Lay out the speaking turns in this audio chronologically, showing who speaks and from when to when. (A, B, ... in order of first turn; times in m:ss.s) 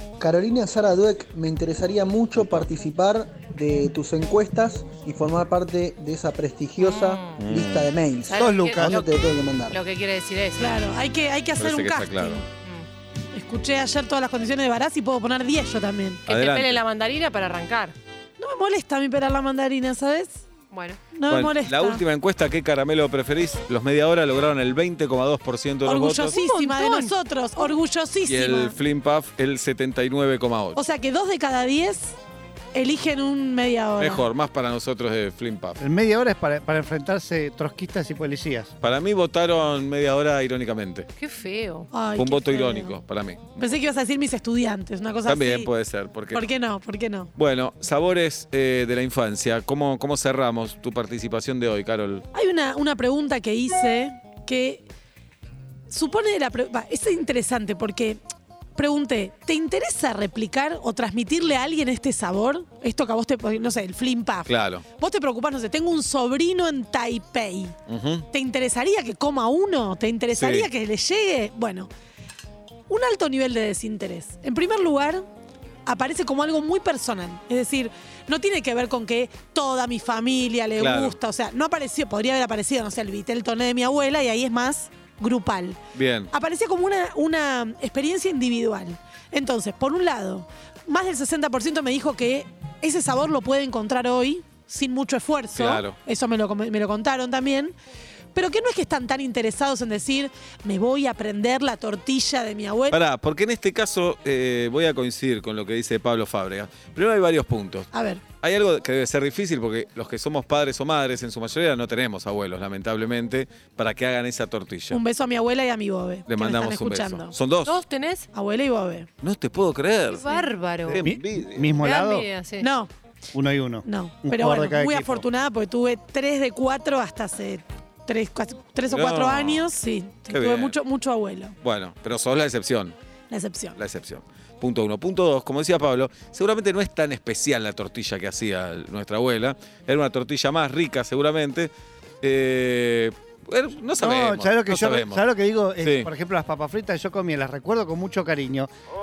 0:00.2-0:09.8 A
0:02.4-0:02.7 B
0:06.8-0:07.4 C
0:07.4-0:07.9 B
0:08.3-0:10.8 C
0:08.3-0:09.1 D
0:10.6-0:12.4 E
0:11.6-0:12.4 B
0:12.6-0:12.9 C
0:13.3-0:16.2 E
0:16.3-0:16.8 B
0:16.3-0:18.0 C
0:18.4-0:20.4 E
0:20.7-0:21.0 C
0:21.1-0:22.0 E
0:21.3-0:26.4 B
0:25.8-0:28.8 E
0:26.3-0:27.1 C
0:28.3-0:30.8 B
0:30.8-0:32.2 E
0:32.7-0:34.3 E
0:34.0-0:35.8 B
0:35.8-0:38.7 D
0:38.8-0:41.1 B
0:41.2-0:41.9 C
0:41.9-0:43.0 E
0:42.2-0:43.4 B
0:43.6-0:45.7 E
0:45.3-0:46.5 B
0:46.3-0:47.3 E
0:47.4-0:52.3 B
0:52.3-0:54.9 E
0:55.9-0:58.2 E
0:58.8-1:07.8 E
1:04.5-1:04.8 B
1:07.9-1:08.3 B
1:08.3-1:11.9 E
1:10.3-1:10.7 B
1:12.9-1:15.2 E
1:15.9-1:25.8 E
1:20.8-1:21.2 B
1:26.0-1:26.3 B
1:26.3-1:37.7 E
1:35.6-1:36.0 B
1:38.3-1:43.0 E
1:42.9-1:47.9 B
1:47.9-1:48.2 E
1:48.4-1:55.0 B
1:54.9-1:57.3 E
1:56.3-1:57.7 B
1:57.6-1:58.3 C
1:58.3-1:59.1 E
1:59.2-2:01.7 B
2:00.1-2:01.0 C
2:00.9-2:02.3 D
2:01.8-2:02.7 C
2:02.6-2:02.9 E
2:03.3-2:05.2 D
2:03.8-2:11.6 E
2:08.9-2:09.7 B
2:10.3-2:10.8 B
2:11.6-2:13.0 B
2:13.3-2:13.8 E
2:13.8-2:25.2 B
2:24.0-2:28.7 D
2:25.8-2:26.1 B